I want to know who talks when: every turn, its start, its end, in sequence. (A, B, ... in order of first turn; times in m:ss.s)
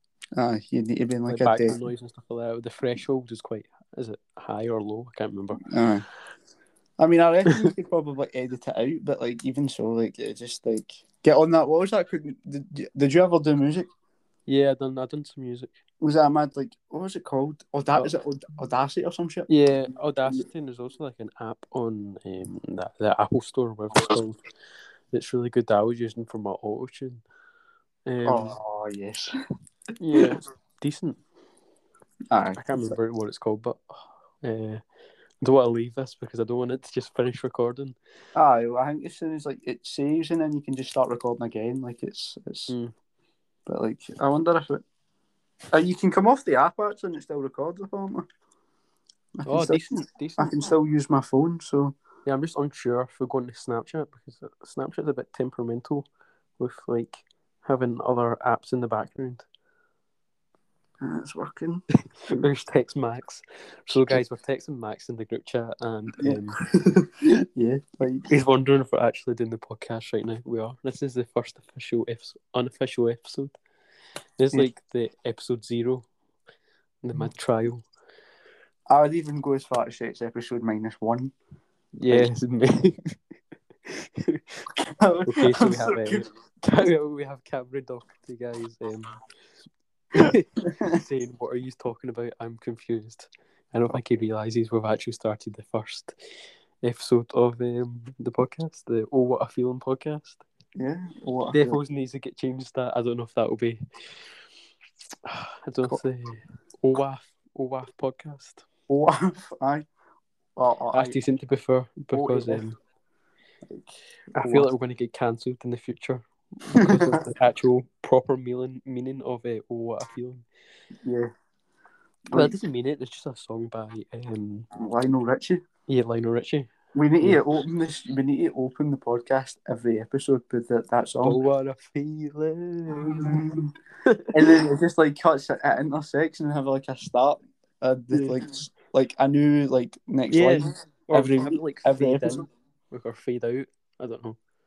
0:00.4-0:01.8 A
0:01.3-0:05.7 B
0:05.6-0:06.0 A
0:07.0-0:13.9 A
0:14.5-0:15.7 B
0:16.0-0:19.5 A
0:19.5-0:24.4 B
0:25.1-0:27.2 B
0:28.1-0:28.6 B
0:28.2-0:29.4 A
0:30.0-0:31.2 B
0:32.3-0:33.0 A
0:32.6-0:34.8 B
0:35.4-0:38.0 B
0:38.4-0:42.7 A
0:43.7-0:44.8 A
0:45.7-0:48.3 A
0:49.4-0:52.0 A
0:49.5-0:50.5 B
0:52.3-0:56.1 B
0:56.6-0:59.5 B
1:01.0-1:02.4 A
1:02.2-1:06.6 B
1:06.2-1:08.3 A
1:08.3-1:13.6 B
1:14.4-1:16.0 B
1:17.0-1:17.8 B
1:18.9-1:21.3 A
1:22.0-1:23.2 B
1:23.9-1:24.7 B
1:24.8-1:26.3 A
1:25.3-1:29.2 B
1:30.1-1:36.2 B
1:30.7-1:31.0 A
1:36.8-1:40.4 B
1:40.8-1:41.8 A
1:41.5-1:43.8 B
1:45.2-1:48.6 B
1:48.9-1:49.9 A
1:50.6-1:51.2 A
1:50.9-1:52.8 B
1:52.1-1:52.6 A
1:53.7-1:54.7 A
1:54.4-2:00.5 B
1:56.8-1:57.2 A
2:01.0-2:01.3 A
2:02.3-2:02.6 A
2:02.3-2:04.7 B
2:04.7-2:05.6 A
2:05.9-2:07.4 B
2:07.0-2:11.4 A
2:11.2-2:14.6 B
2:13.0-2:13.7 A
2:14.3-2:22.5 A
2:18.1-2:18.4 B
2:20.3-2:24.4 B